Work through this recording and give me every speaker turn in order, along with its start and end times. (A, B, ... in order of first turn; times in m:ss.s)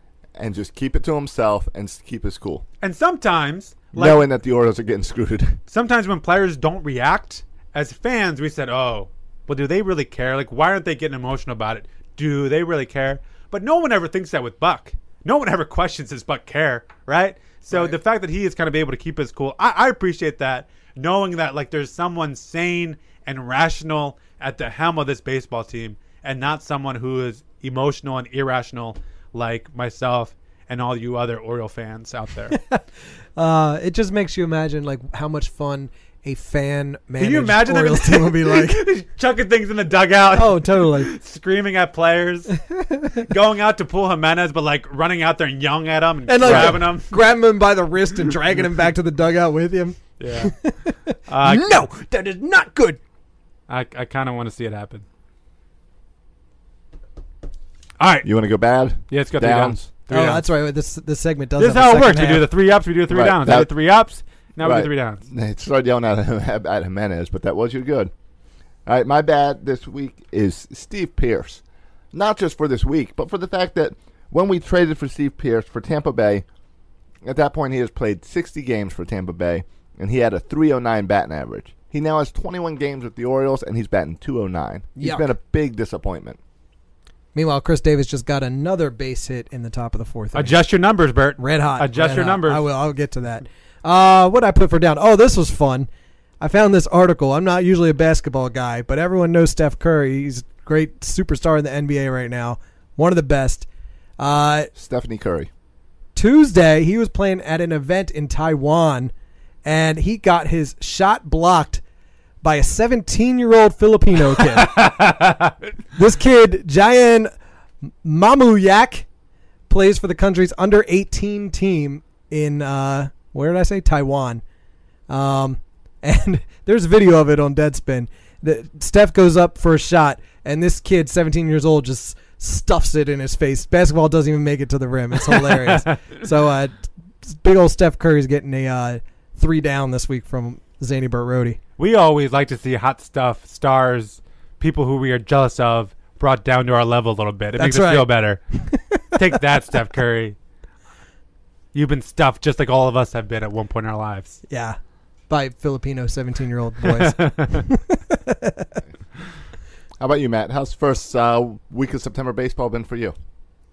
0:00.3-0:02.6 A
0:02.8-0:04.2 B
0:03.9-0:05.6 A
0:05.7-0:32.6 B
0:32.5-0:32.8 C
0:33.4-0:38.8 C
0:37.2-0:42.5 B
0:40.3-0:41.1 C
0:42.7-0:43.2 C
0:43.2-0:47.1 B
0:46.3-0:53.0 C
0:46.4-0:46.8 A
0:50.2-0:50.5 B
0:51.3-0:51.8 B
0:53.7-0:55.0 B
0:58.0-0:58.3 B
0:58.2-0:59.8 A
0:59.1-1:00.5 B
1:00.1-1:02.5 C
1:01.6-1:05.2 B
1:03.1-1:03.7 A
1:04.6-1:08.1 A
1:08.8-1:11.6 A
1:12.1-1:16.4 A
1:17.2-1:26.4 A
1:25.0-1:25.2 C
1:27.3-1:30.6 C
1:30.3-1:32.7 B
1:31.4-1:35.9 C
1:36.4-1:43.7 C
1:44.2-1:44.7 C
1:44.8-1:45.5 A
1:46.1-1:49.1 C
1:49.6-1:51.8 C
1:52.4-1:55.1 C
1:54.5-1:55.5 B
1:56.0-1:57.3 C
1:58.0-1:59.0 C
1:59.7-2:04.4 C
2:05.1-2:21.6 C
2:15.3-2:15.9 B
2:21.8-2:28.4 B
2:27.6-2:29.2 C
2:29.2-2:30.4 B
2:31.7-2:34.4 B
2:34.5-2:34.8 C
2:35.3-2:38.7 C
2:36.8-2:37.6 B
2:40.0-2:43.1 A